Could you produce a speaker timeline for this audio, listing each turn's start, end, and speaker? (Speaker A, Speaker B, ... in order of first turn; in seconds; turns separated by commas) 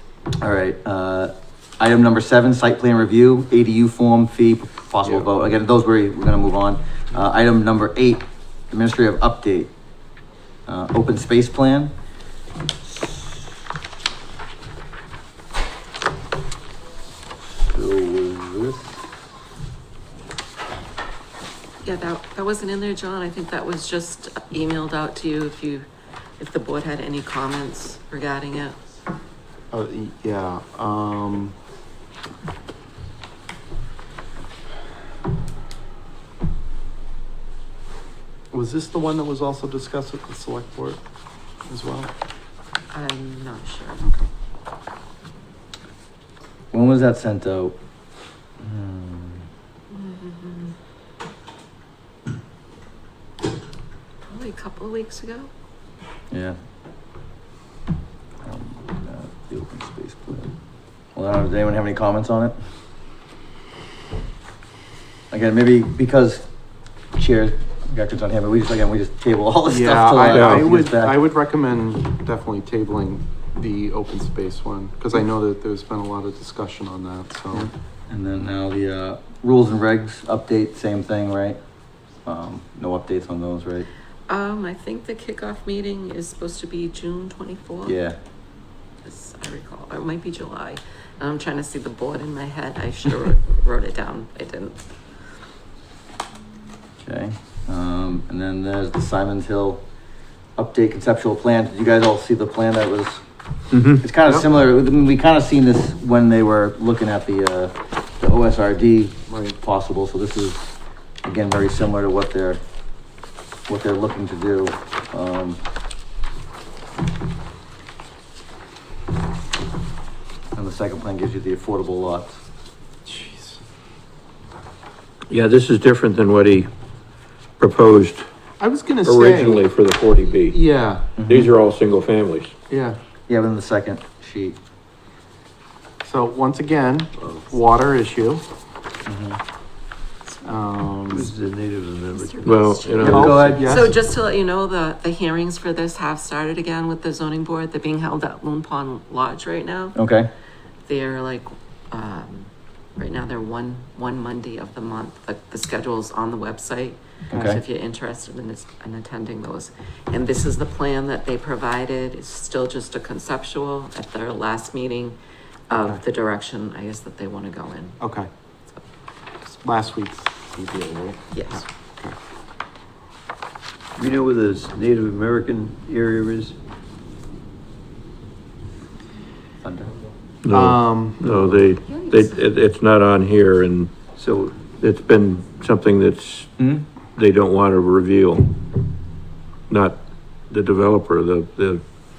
Speaker A: 0.4-9.7, Speaker A: 10.7-11.9, Speaker A: 17.5-18.9, Speaker B: 21.8-25.9, Speaker B: 26.4-28.8, Speaker C: 29.7-31.5, Speaker C: 38.5-41.0, Speaker C: 41.7-42.1, Speaker B: 42.9-44.1, Speaker A: 46.7-47.8, Speaker A: 48.6-49.5, Speaker B: 49.9-50.8, Speaker B: 54.3-55.5, Speaker A: 56.3-56.5, Speaker A: 58.4-60.5, Speaker A: 61.1-62.5, Speaker A: 65.3-66.4, Speaker A: 67.1-71.2, Speaker C: 69.7-77.7, Speaker D: 70.3-70.7, Speaker A: 78.1-81.6, Speaker A: 82.2-83.9, Speaker B: 84.3-88.0, Speaker A: 87.8-88.2, Speaker B: 89.0-94.8, Speaker A: 97.0-99.8, Speaker A: 100.6-103.2, Speaker D: 103.7-104.0, Speaker A: 104.0-112.6, Speaker C: 109.3-109.6, Speaker A: 113.7-115.6, Speaker A: 120.5-122.3, Speaker C: 123.0-123.6, Speaker D: 125.3-126.7, Speaker D: 127.6-128.3, Speaker C: 128.6-129.7, Speaker D: 129.0-130.6, Speaker C: 130.5-131.1, Speaker A: 131.2-131.5, Speaker D: 131.2-132.5, Speaker C: 132.7-133.0, Speaker A: 133.3-134.6, Speaker C: 136.0-138.4, Speaker E: 137.2-137.4, Speaker A: 139.1-139.4, Speaker C: 140.4-141.3, Speaker E: 141.1-142.9, Speaker B: 142.1-150.0, Speaker D: 142.4-143.6, Speaker A: 143.0-143.8, Speaker C: 143.0-143.9, Speaker A: 149.9-150.3, Speaker B: 150.8-165.2, Speaker A: 157.3-157.6, Speaker B: 165.7-168.0, Speaker C: 165.8-166.0, Speaker C: 168.0-168.3, Speaker C: 169.6-172.2, Speaker B: 171.3-171.6, Speaker E: 174.0-176.6, Speaker A: 179.6-179.9, Speaker D: 180.4-183.9, Speaker C: 180.5-181.2, Speaker E: 181.2-181.8, Speaker B: 181.8-182.4, Speaker E: 184.2-184.7, Speaker D: 184.8-186.6, Speaker A: 186.6-186.8, Speaker D: 187.2-188.5, Speaker D: 189.7-191.8